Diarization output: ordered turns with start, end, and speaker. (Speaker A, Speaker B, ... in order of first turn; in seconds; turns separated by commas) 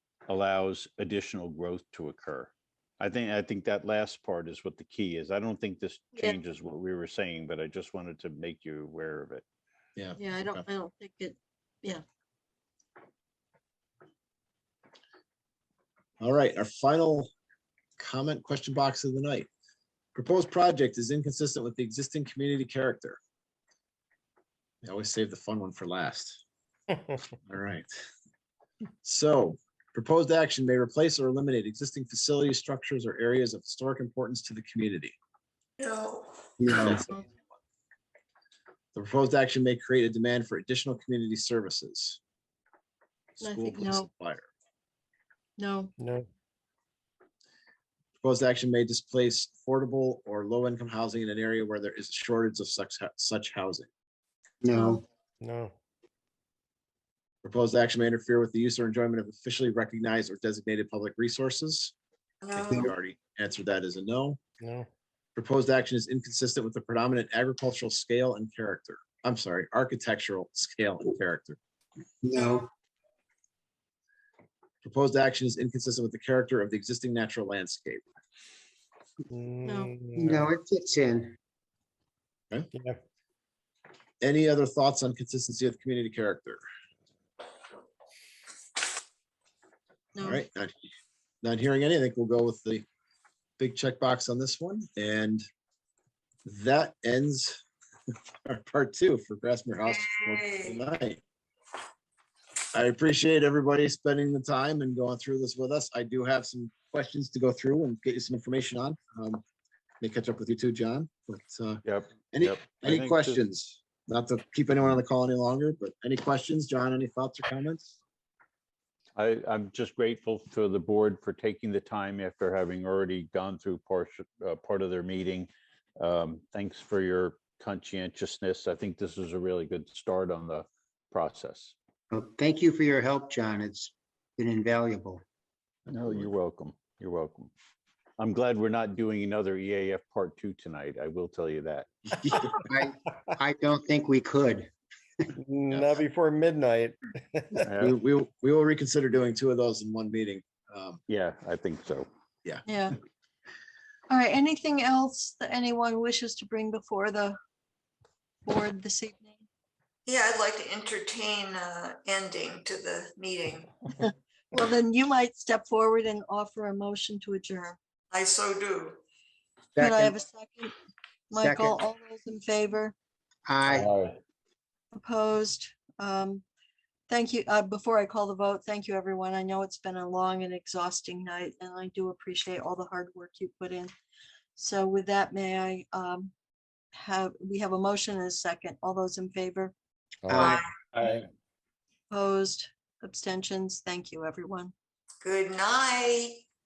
Speaker A: 0.3-9.4, Speaker B: 10.0-10.7, Speaker C: 10.2-12.0, Speaker B: 16.2-17.3, Speaker B: 18.0-19.5, Speaker B: 20.1-23.2, Speaker B: 24.8-26.4, Speaker B: 27.5-27.9, Speaker B: 29.0-35.1, Speaker D: 35.8-36.3, Speaker E: 36.6-37.0, Speaker B: 36.7-37.4, Speaker B: 39.0-42.2, Speaker B: 43.4-44.5, Speaker C: 43.4-44.1, Speaker C: 45.6-45.9, Speaker F: 46.0-46.3, Speaker B: 48.2-53.9, Speaker E: 54.6-55.0, Speaker C: 54.7-55.0, Speaker F: 55.4-55.7, Speaker B: 57.4-61.9, Speaker D: 62.4-62.8, Speaker E: 62.5-62.9, Speaker B: 62.7-64.4, Speaker F: 64.6-64.9, Speaker B: 65.4-71.6, Speaker E: 72.2-72.7, Speaker D: 72.3-72.6, Speaker B: 74.8-78.0, Speaker F: 79.3-80.5, Speaker C: 79.6-79.9, Speaker E: 80.2-81.4, Speaker F: 82.7-83.0, Speaker B: 84.2-86.6, Speaker C: 90.1-90.4, Speaker B: 90.2-90.7, Speaker B: 91.4-92.8, Speaker B: 93.6-95.4, Speaker B: 96.5-97.6, Speaker B: 98.4-101.2, Speaker D: 99.9-100.8, Speaker B: 102.7-109.4, Speaker B: 110.0-118.0, Speaker A: 111.8-113.4, Speaker A: 119.2-131.8, Speaker E: 132.1-135.2, Speaker B: 135.9-136.3, Speaker A: 135.9-137.5, Speaker A: 138.2-141.9, Speaker E: 142.3-144.7, Speaker F: 145.4-147.7, Speaker B: 145.7-146.0, Speaker A: 147.6-147.9, Speaker B: 147.8-151.0, Speaker A: 151.1-152.1, Speaker C: 152.7-152.9, Speaker C: 154.1-157.4, Speaker C: 158.5-159.5, Speaker D: 160.1-163.7, Speaker C: 164.5-167.8, Speaker D: 168.1-169.0, Speaker E: 169.8-170.2, Speaker C: 169.8-170.7, Speaker C: 171.3-172.9, Speaker E: 171.3-171.8, Speaker E: 173.5-173.9, Speaker F: 173.8-174.0, Speaker C: 174.9-176.4, Speaker C: 177.1-183.9, Speaker C: 184.6-186.3, Speaker C: 186.9-189.7, Speaker F: 190.3-190.6, Speaker E: 190.3-190.6, Speaker D: 190.3-190.7, Speaker C: 192.1-194.7, Speaker D: 195.2-196.4